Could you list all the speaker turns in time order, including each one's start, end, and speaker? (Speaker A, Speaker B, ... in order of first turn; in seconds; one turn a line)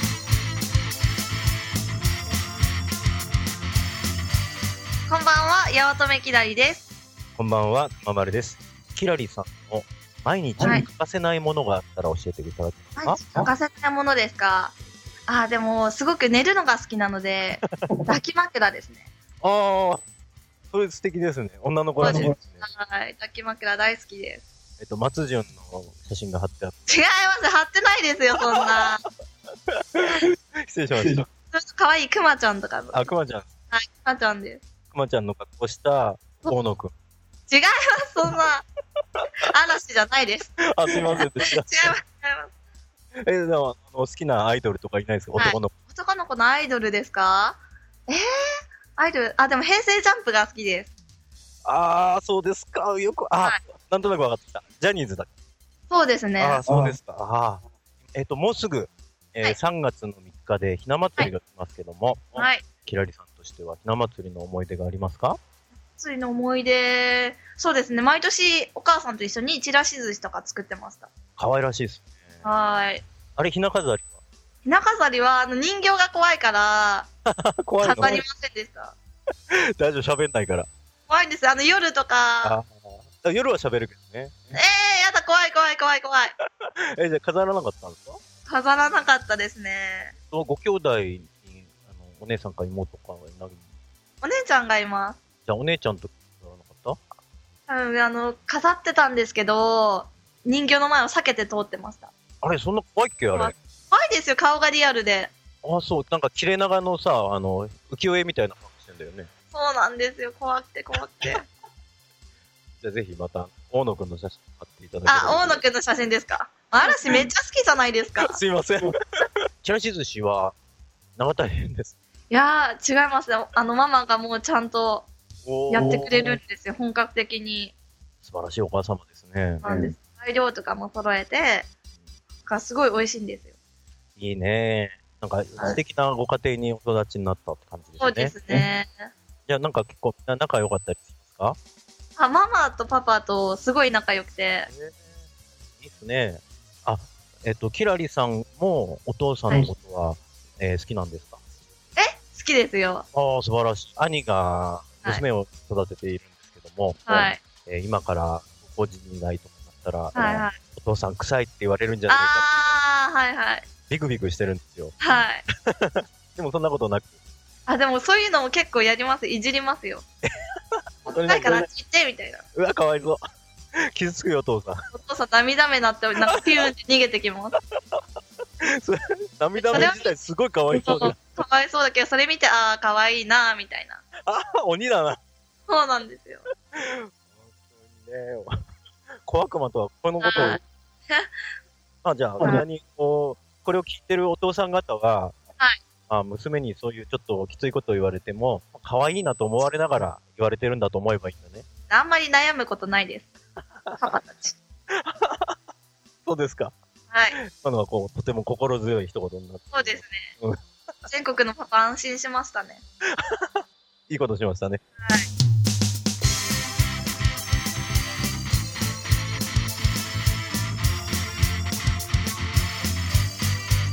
Speaker A: 5.1-6.9
Speaker B: 7.3-13.5
Speaker A: 13.0-14.7
Speaker A: 15.3-19.1
Speaker B: 19.4-20.0
Speaker B: 20.7-22.6
Speaker A: 22.0-24.4
Speaker B: 24.8-26.9
Speaker A: 26.9-29.0
Speaker B: 29.9-31.2
Speaker A: 31.5-33.1
Speaker B: 32.9-33.5
Speaker A: 33.7-34.6
Speaker B: 34.9-36.9
Speaker A: 37.5-38.6
Speaker A: 39.4-40.5
Speaker B: 40.7-42.0
Speaker A: 41.0-42.5
Speaker B: 43.2-45.7
Speaker A: 45.4-48.3
Speaker A: 49.0-50.9
Speaker B: 51.6-55.3
Speaker A: 55.9-56.6
Speaker B: 56.4-57.6
Speaker B: 58.1-65.4
Speaker A: 62.3-62.6
Speaker A: 65.9-71.1
Speaker B: 71.4-72.5
Speaker A: 72.4-73.0
Speaker B: 73.3-74.2
Speaker A: 74.7-77.1
Speaker B: 77.3-78.2
Speaker A: 77.8-78.9
Speaker B: 79.8-80.7
Speaker A: 81.1-82.5
Speaker B: 82.4-84.3
Speaker A: 84.5-86.3
Speaker B: 87.0-88.2
Speaker A: 88.5-90.1
Speaker B: 90.3-93.6
Speaker A: 94.2-95.2
Speaker B: 95.5-97.0
Speaker A: 97.7-102.1
Speaker B: 102.4-103.5
Speaker A: 103.3-105.3
Speaker B: 105.6-109.3
Speaker A: 109.5-111.4
Speaker B: 112.8-115.7
Speaker A: 115.0-118.4
Speaker B: 116.9-117.3
Speaker B: 118.2-118.9
Speaker B: 119.6-120.5
Speaker B: 121.2-122.0
Speaker A: 122.3-125.1
Speaker B: 125.4-126.4
Speaker A: 125.7-127.7
Speaker B: 128.2-129.9
Speaker A: 129.6-131.7
Speaker A: 132.4-133.5
Speaker B: 134.2-138.6
Speaker A: 138.0-139.1
Speaker B: 139.5-141.6
Speaker A: 142.2-144.7
Speaker B: 144.7-145.2
Speaker B: 145.8-151.4
Speaker A: 151.9-153.1
Speaker B: 153.1-162.8
Speaker A: 157.1-157.4
Speaker A: 160.1-160.6
Speaker A: 162.1-163.7
Speaker B: 163.9-167.1
Speaker A: 165.0-165.4
Speaker A: 167.7-170.0
Speaker B: 170.3-171.7
Speaker A: 171.1-172.4
Speaker B: 172.5-173.2
Speaker B: 173.9-174.8
Speaker A: 174.9-177.6
Speaker B: 178.7-181.4
Speaker A: 179.5-184.0
Speaker B: 184.2-185.2
Speaker A: 185.7-186.4
Speaker B: 186.7-188.5
Speaker B: 189.2-190.6
Speaker A: 190.2-191.3
Speaker B: 192.0-195.3
Speaker B: 196.1-201.7
Speaker A: 201.9-203.3
Speaker A: 203.9-204.6
Speaker B: 204.9-205.6
Speaker B: 206.2-206.7
Speaker A: 207.1-207.3
Speaker B: 207.3-210.6
Speaker A: 209.7-210.3
Speaker A: 211.1-212.8
Speaker B: 213.2-213.6
Speaker B: 214.1-214.8
Speaker A: 215.0-215.3